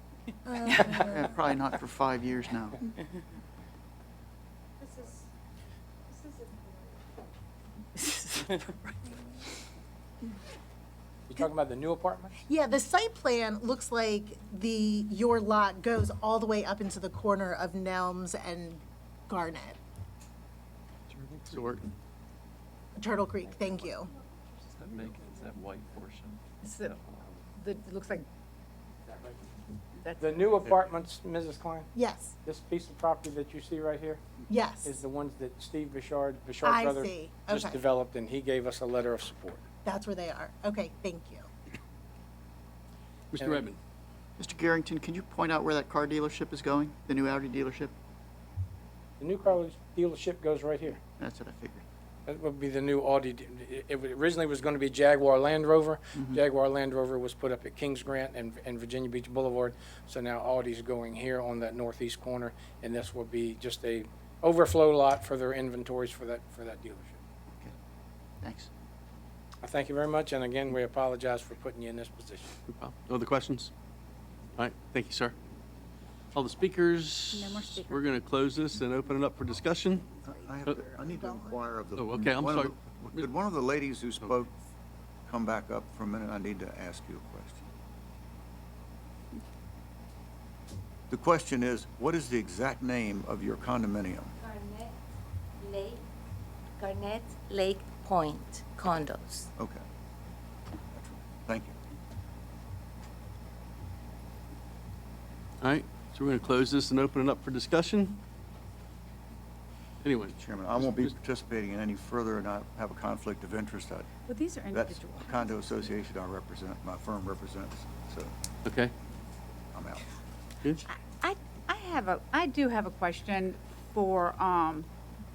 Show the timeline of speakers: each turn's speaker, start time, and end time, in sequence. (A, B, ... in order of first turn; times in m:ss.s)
0:00.4-0:01.4 A
0:01.4-0:02.7 B
0:02.1-0:02.5 C
0:08.0-0:08.7 D
0:11.3-0:12.4 E
0:12.4-0:19.8 A
0:21.1-0:21.9 F
0:21.5-0:21.8 G
0:23.0-0:24.1 A
0:23.5-0:23.9 F
0:24.7-0:27.4 F
0:26.6-0:27.0 D
0:27.6-0:28.2 D
0:29.1-0:29.4 E
0:30.0-0:30.4 D
0:30.2-0:31.9 E
0:31.9-0:32.3 A
0:32.4-0:34.2 E
0:34.5-0:34.9 A
0:34.8-0:39.6 E
0:36.6-0:37.8 A
0:39.8-0:41.5 A
0:43.3-0:43.8 G
0:43.4-0:43.7 E
0:44.4-0:47.9 C
0:49.2-0:51.0 E
0:51.2-0:51.8 C
0:52.3-1:07.2 E
1:09.6-1:12.5 E
1:12.7-1:13.7 G
1:14.6-1:15.3 G
1:16.3-1:20.8 G
1:17.3-1:18.0 D
1:20.2-1:21.6 A
1:20.2-1:24.5 B
1:21.9-1:23.3 G
1:25.3-1:27.6 B
1:31.1-1:34.3 B
1:34.4-1:34.9 H
1:35.6-1:36.0 H
1:36.8-1:39.5 H
1:39.6-1:39.8 B
1:40.9-1:41.7 B
1:45.6-1:48.2 G
1:50.0-1:51.1 G
1:50.4-1:54.1 B
1:54.3-1:55.8 D
1:54.7-1:58.3 B
1:58.6-1:58.9 G
1:59.7-2:00.1 B
2:00.9-2:04.9 D